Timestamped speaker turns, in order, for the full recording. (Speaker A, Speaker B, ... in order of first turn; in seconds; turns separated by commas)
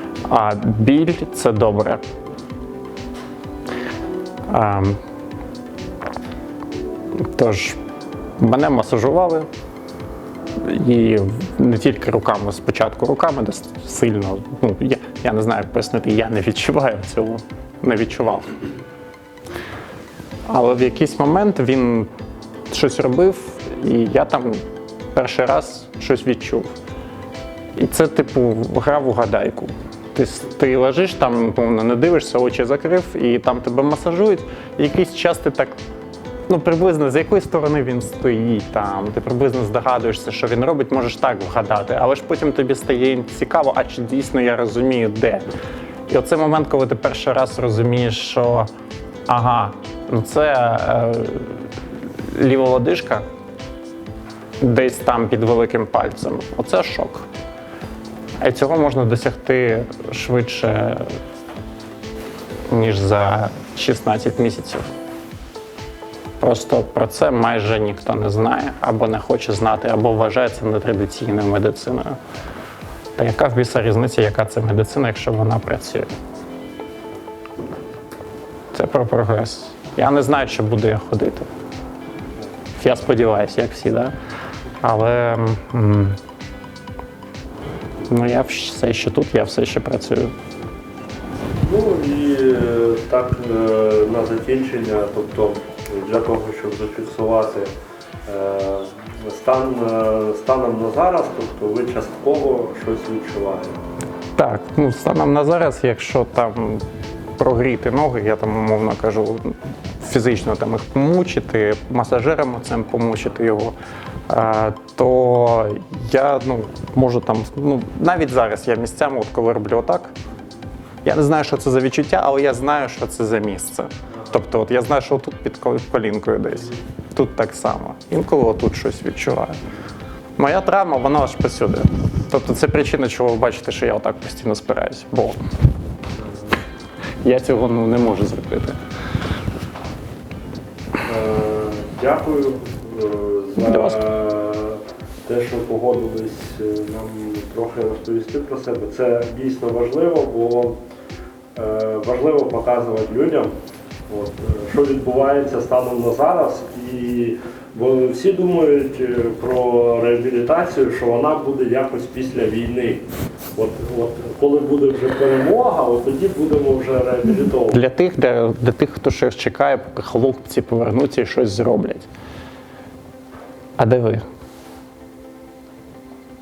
Speaker A: 0.3-2.0, Speaker A: 4.5-5.0, Speaker A: 7.2-7.8, Speaker A: 8.4-9.5, Speaker A: 10.6-18.5, Speaker A: 20.5-22.1, Speaker A: 22.7-24.6, Speaker A: 25.1-26.7, Speaker A: 27.8-35.7, Speaker A: 36.5-45.4, Speaker A: 46.1-48.7, Speaker A: 49.3-51.7, Speaker A: 52.3-53.2, Speaker A: 54.6-57.3, Speaker A: 58.4-61.1, Speaker A: 62.7-64.8, Speaker A: 66.4-72.2, Speaker A: 73.2-76.1, Speaker A: 78.7-81.5, Speaker A: 82.8-84.1, Speaker A: 84.8-86.2, Speaker A: 88.1-90.3, Speaker B: 91.6-97.7, Speaker B: 98.2-103.8, Speaker A: 104.3-106.8, Speaker A: 107.4-113.7, Speaker A: 114.3-120.1, Speaker A: 121.0-129.6, Speaker A: 130.4-135.4, Speaker A: 137.2-138.8, Speaker B: 141.0-150.8, Speaker A: 143.6-144.0, Speaker B: 151.5-153.5, Speaker B: 154.1-167.8, Speaker A: 167.7-172.1, Speaker A: 173.8-174.2